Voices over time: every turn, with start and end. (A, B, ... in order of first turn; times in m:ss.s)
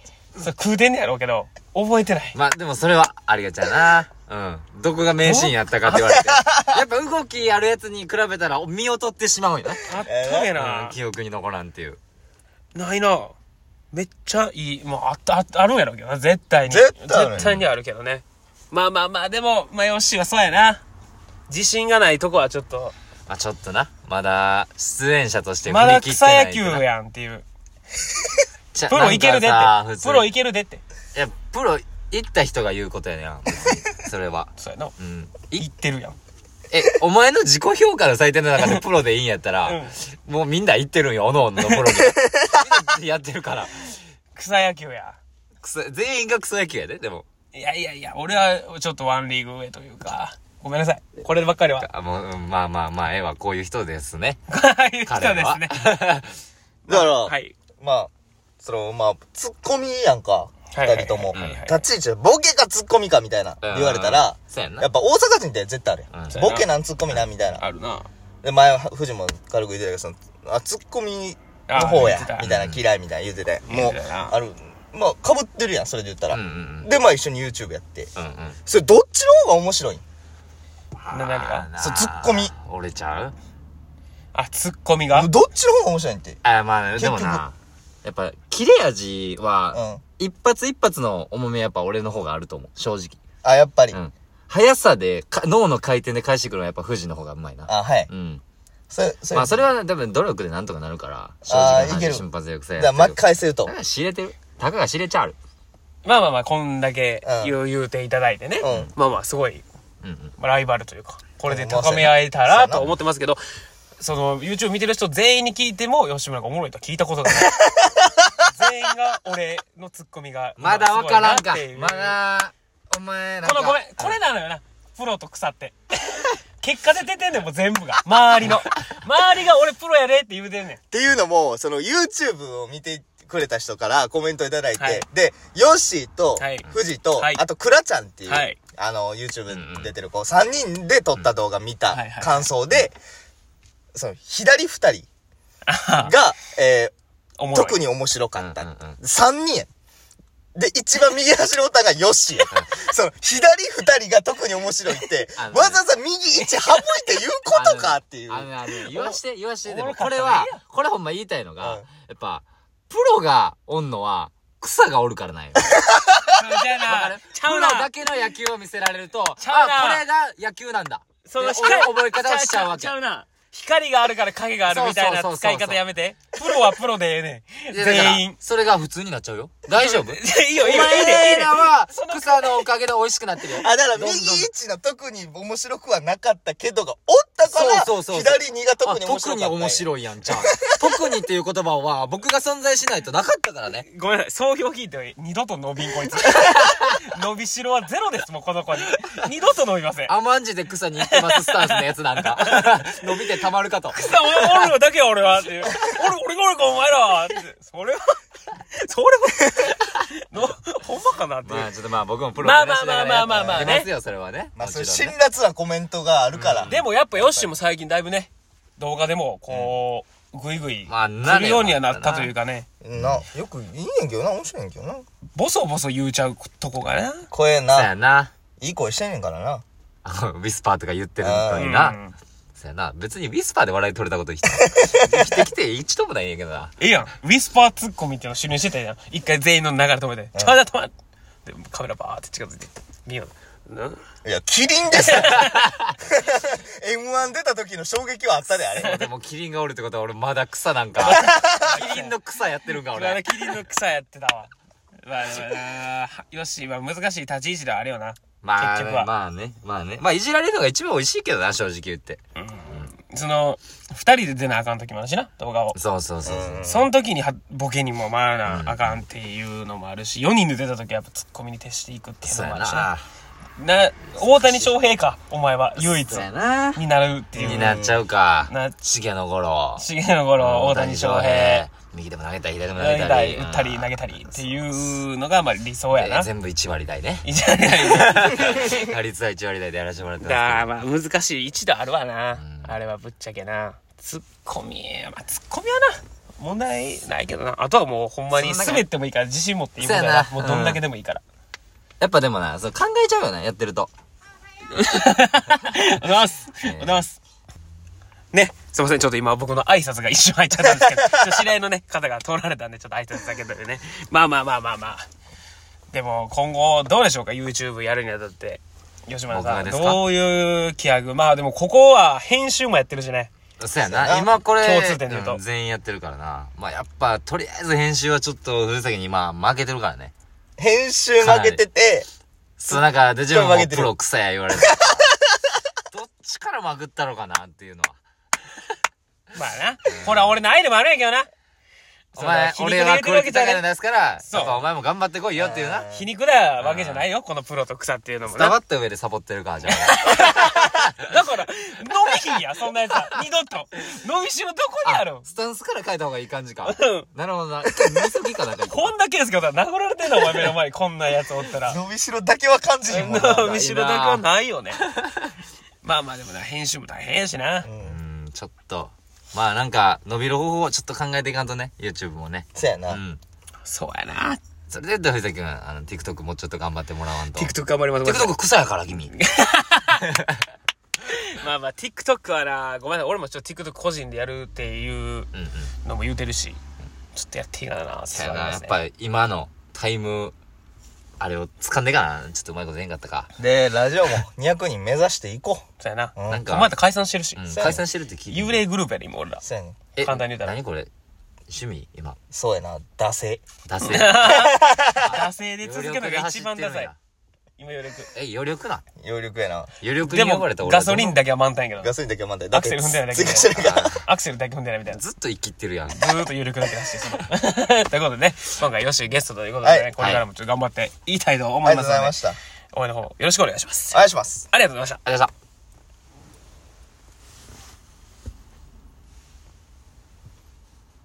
0:00.4-0:02.4 A
0:02.3-0:10.0 B
0:05.2-0:05.5 A
0:05.9-0:06.8 C
0:09.9-0:11.0 A
0:10.0-0:10.5 C
0:10.6-0:12.0 B
0:12.8-0:13.4 A
0:13.9-0:20.8 A
0:16.7-0:17.5 C
0:17.3-0:17.6 B
0:21.5-0:22.9 A
0:23.3-0:26.8 B
0:25.7-0:27.4 A
0:28.7-0:30.3 B
0:28.9-0:30.8 A
0:31.2-0:35.7 B
0:34.6-0:34.9 A
0:35.6-0:36.2 A
0:36.7-0:43.9 B
0:39.6-0:39.9 A
0:42.0-0:42.6 C
0:44.4-0:45.2 A
0:45.6-0:47.2 B
0:47.5-0:51.9 A
0:51.8-0:54.4 B
0:54.5-0:55.8 A
0:55.1-0:56.4 B
0:56.9-1:07.6 C
0:56.9-0:57.6 A
1:00.7-1:01.8 A
1:01.3-1:01.6 B
1:03.6-1:04.9 B
1:06.3-1:06.7 A
1:07.6-1:08.1 A
1:08.4-1:18.1 C
1:11.7-1:12.5 A
1:12.4-1:12.8 B
1:13.7-1:14.4 A
1:16.3-1:16.9 B
1:18.2-1:18.6 B
1:18.7-1:20.0 C
1:21.0-1:23.4 B
1:21.1-1:21.7 A
1:21.8-1:22.5 C
1:24.3-1:25.3 A
1:25.1-1:26.4 C
1:26.4-1:33.2 B
1:27.0-1:27.4 C
1:29.7-1:30.0 C
1:33.4-1:34.0 C
1:33.9-1:38.4 B
1:37.7-1:38.1 C
1:38.9-1:39.7 C
1:39.3-1:45.4 B
1:41.5-1:43.7 C
1:46.0-1:49.6 A
1:47.2-1:47.6 C
1:48.6-1:48.9 C
1:48.6-1:48.9 B
1:50.0-1:50.3 B
1:50.4-1:53.4 A
1:51.5-1:52.8 C
1:54.0-1:57.6 A
1:57.4-1:58.3 C
1:58.4-2:02.2 A
2:00.6-2:04.2 B
2:03.4-2:10.8 A
2:10.9-2:23.0 C
2:14.8-2:15.0 A
2:16.4-2:17.4 A
2:18.3-2:18.6 A
2:19.5-2:19.9 B
2:21.9-2:22.5 A
2:23.9-2:25.1 C
2:25.7-2:26.1 A
2:26.0-2:26.9 C
2:27.4-2:27.8 A
2:27.5-2:29.7 C
2:28.4-2:29.0 B
2:30.6-2:39.0 C
2:35.4-2:35.8 B
2:36.4-2:36.8 A
2:37.5-2:45.7 B
2:39.7-2:40.6 A
2:41.6-2:41.8 C
2:46.3-2:47.9 A
2:46.8-2:52.9 B
2:49.4-2:50.0 A
2:51.2-2:58.4 A
2:54.7-2:55.8 B
2:57.7-3:04.5 B
2:59.7-3:02.6 A
3:03.6-3:10.7 C
3:07.5-3:13.9 B
3:13.8-3:20.1 A
3:16.2-3:17.0 B
3:20.1-3:24.7 B
3:21.0-3:23.2 A
3:23.9-3:28.2 A
3:28.7-3:31.7 A
3:31.4-3:35.2 B
3:32.4-3:33.9 A
3:33.2-3:33.8 C
3:34.6-3:37.5 C
3:36.3-3:36.8 B
3:36.7-3:42.7 A
3:40.9-3:42.3 B
3:42.8-3:45.0 C
3:43.0-3:43.2 B
3:45.4-3:47.3 A
3:47.3-3:47.9 C
3:47.7-3:48.3 B
3:48.6-3:49.6 C
3:50.0-3:52.0 B
3:51.2-3:51.8 C
3:51.6-3:52.1 A
3:52.6-3:56.7 B
3:54.6-3:55.4 C
3:56.8-4:00.9 A
4:01.5-4:04.0 A
4:04.2-4:09.0 C
4:04.9-4:05.7 A
4:05.5-4:05.9 B
4:08.8-4:13.6 B
4:11.0-4:12.1 A
4:11.0-4:11.8 C
4:12.9-4:14.5 A
4:15.0-4:19.1 A
4:18.4-4:22.9 B
4:22.4-4:25.8 A
4:25.7-4:26.6 B
4:26.2-4:26.9 C
4:26.6-4:32.9 A
4:28.5-4:29.0 B
4:32.2-4:33.0 B
4:33.6-4:37.8 A
4:34.1-4:34.7 B
4:35.8-4:36.8 B
4:37.3-4:39.9 B
4:37.4-4:38.0 C
4:38.5-4:38.8 A
4:39.8-4:41.7 A
4:40.4-4:44.0 B
4:42.8-4:46.3 A
4:45.9-4:50.7 B
4:47.2-4:48.7 A
4:50.2-5:01.2 A
4:52.4-4:52.8 B
4:58.3-4:58.9 B
4:59.8-5:00.8 B
5:02.0-5:03.9 B
5:04.7-5:07.2 A
5:06.6-5:07.0 B
5:08.3-5:15.0 A
5:10.6-5:11.3 C
5:15.9-5:23.3 A
5:19.3-5:20.0 B
5:23.6-5:30.1 B
5:23.9-5:24.3 C
5:24.6-5:25.4 A
5:30.6-5:32.1 C
5:31.2-5:31.6 B
5:32.6-5:35.2 B
5:32.7-5:33.9 C
5:34.6-5:35.4 C
5:35.9-5:38.0 B
5:39.3-5:41.3 A
5:39.9-5:40.4 B
5:42.1-5:43.6 A
5:42.1-5:45.9 B
5:44.2-5:44.7 A
5:45.4-5:46.1 C
5:45.9-5:48.6 A
5:46.6-5:47.1 B
5:48.3-5:50.8 B
5:49.7-5:55.3 A
5:54.8-5:58.9 B
5:56.6-5:57.1 A
5:57.6-5:58.0 C
5:58.7-6:01.8 A
6:01.6-6:03.7 C
6:02.9-6:04.8 A
6:03.5-6:04.2 B
6:05.8-6:07.7 A
6:07.6-6:08.0 C
6:07.8-6:13.2 B
6:12.6-6:13.0 C
6:13.6-6:14.4 A
6:14.7-6:17.5 B
6:17.3-6:18.4 A
6:18.0-6:19.1 B
6:19.1-6:20.0 A
6:21.1-6:25.3 A
6:25.3-6:25.7 B
6:25.8-6:26.6 A
6:27.2-6:28.8 A
6:28.1-6:30.3 B
6:31.2-6:33.3 B
6:33.4-6:35.6 C
6:35.8-6:37.4 A
6:36.2-6:36.5 C
6:36.3-6:36.7 B
6:37.4-6:38.6 B
6:37.5-6:37.8 C
6:38.3-6:39.4 A
6:39.4-6:39.8 C
6:40.0-6:40.9 B
6:40.0-6:40.6 A
6:41.5-6:42.2 B
6:42.3-6:43.4 C
6:43.7-6:44.3 B
6:43.8-6:46.9 A
6:44.0-6:45.2 C
6:45.0-6:47.0 B
6:47.6-6:48.1 A
6:48.1-6:48.8 B
6:49.0-6:49.7 C
6:49.8-6:51.2 B
6:50.0-6:51.9 A
6:51.8-6:54.0 C
6:52.5-6:55.0 A
6:53.6-6:54.0 B
6:54.9-6:56.3 B
6:55.9-7:02.2 A
6:59.6-6:59.9 C
7:00.0-7:00.2 B
7:01.6-7:02.4 C
7:02.7-7:04.0 A
7:03.9-7:04.5 C
7:04.5-7:05.0 A
7:05.1-7:05.3 B